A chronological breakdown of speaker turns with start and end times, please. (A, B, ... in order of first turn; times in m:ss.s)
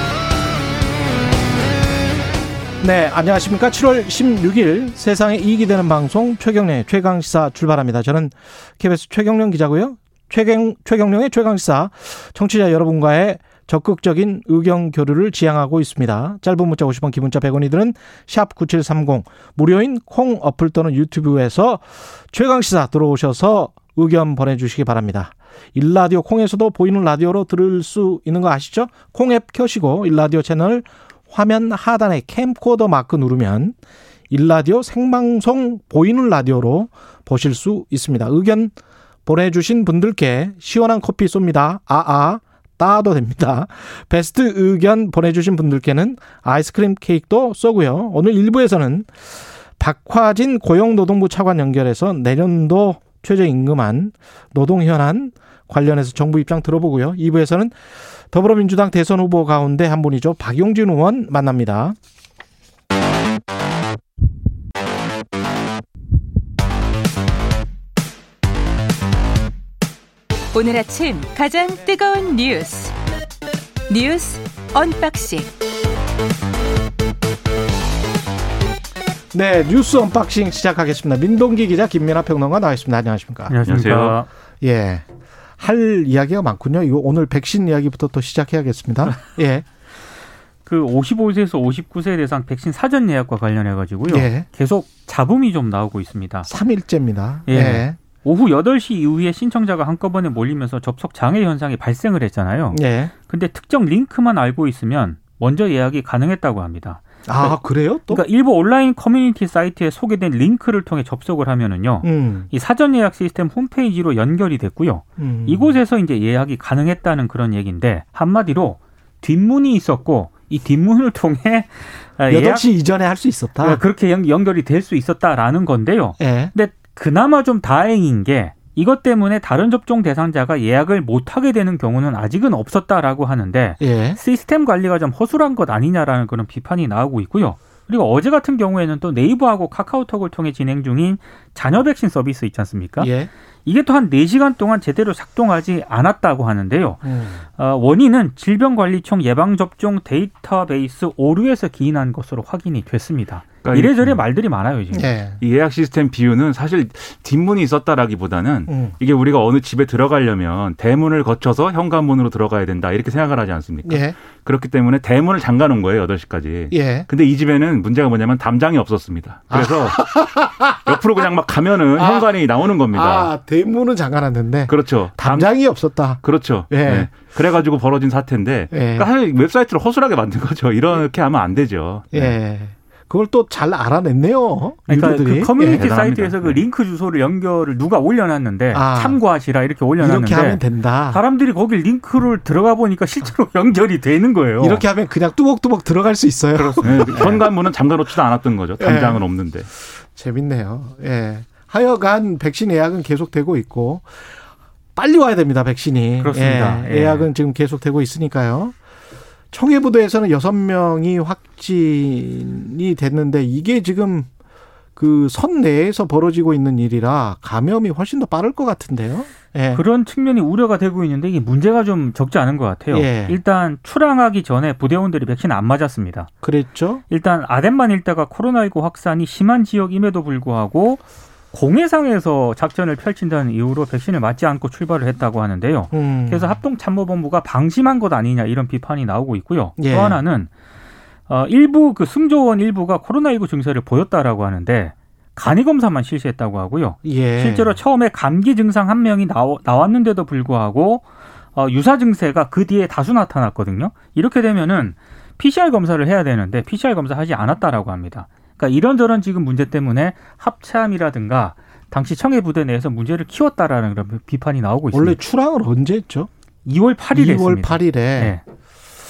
0:02.8-0:33.8 A
0:34.3-0:38.7 A
0:39.3-0:57.8 A
0:58.3-1:02.0 A
1:10.5-1:12.9 B
1:13.9-1:15.5 B
1:19.3-1:23.6 A
1:23.5-1:24.3 C
1:23.7-1:24.2 D
1:24.6-1:25.1 A
1:25.6-1:29.7 A
1:30.7-1:36.5 C
1:34.1-1:34.5 A
1:36.5-1:38.0 A
1:37.5-1:47.6 C
1:42.7-1:43.1 A
1:47.3-1:48.2 A
1:48.1-2:02.6 C
1:52.0-1:52.5 A
1:55.2-1:55.8 A
2:02.3-2:03.8 A
2:03.6-2:23.1 C
2:06.2-2:06.5 A
2:13.8-2:14.2 A
2:23.0-2:23.3 A
2:23.6-2:27.0 C
2:27.0-2:27.4 A
2:27.6-2:35.1 C
2:33.6-2:34.2 D
2:34.9-2:35.4 A
2:35.4-2:50.1 D
2:38.7-2:39.0 A
2:43.8-2:44.2 A
2:46.7-2:47.1 A
2:49.5-2:51.0 A
2:50.8-2:53.3 D
2:52.0-2:52.3 A
2:52.9-2:57.1 A
2:54.7-3:02.4 D
2:58.7-2:59.1 A
3:02.1-3:06.3 A
3:04.9-3:14.8 C
3:05.6-3:06.5 D
3:08.7-3:09.2 A
3:10.0-3:11.2 A
3:14.6-3:17.5 A
3:16.6-3:19.7 D
3:16.9-3:17.4 C
3:18.8-3:19.2 A
3:20.0-3:24.3 A
3:25.0-3:28.8 A
3:26.2-3:27.3 C
3:29.5-3:34.3 A
3:35.0-3:39.8 A
3:39.7-3:46.3 C
3:42.9-3:43.4 A
3:46.4-3:47.0 A
3:47.1-3:51.0 C
3:51.5-4:00.5 C
3:55.9-3:56.6 A
3:59.8-4:00.2 A
4:01.3-4:25.2 C
4:07.0-4:07.8 A
4:24.9-4:26.3 A
4:26.7-4:28.4 C
4:27.1-4:28.4 A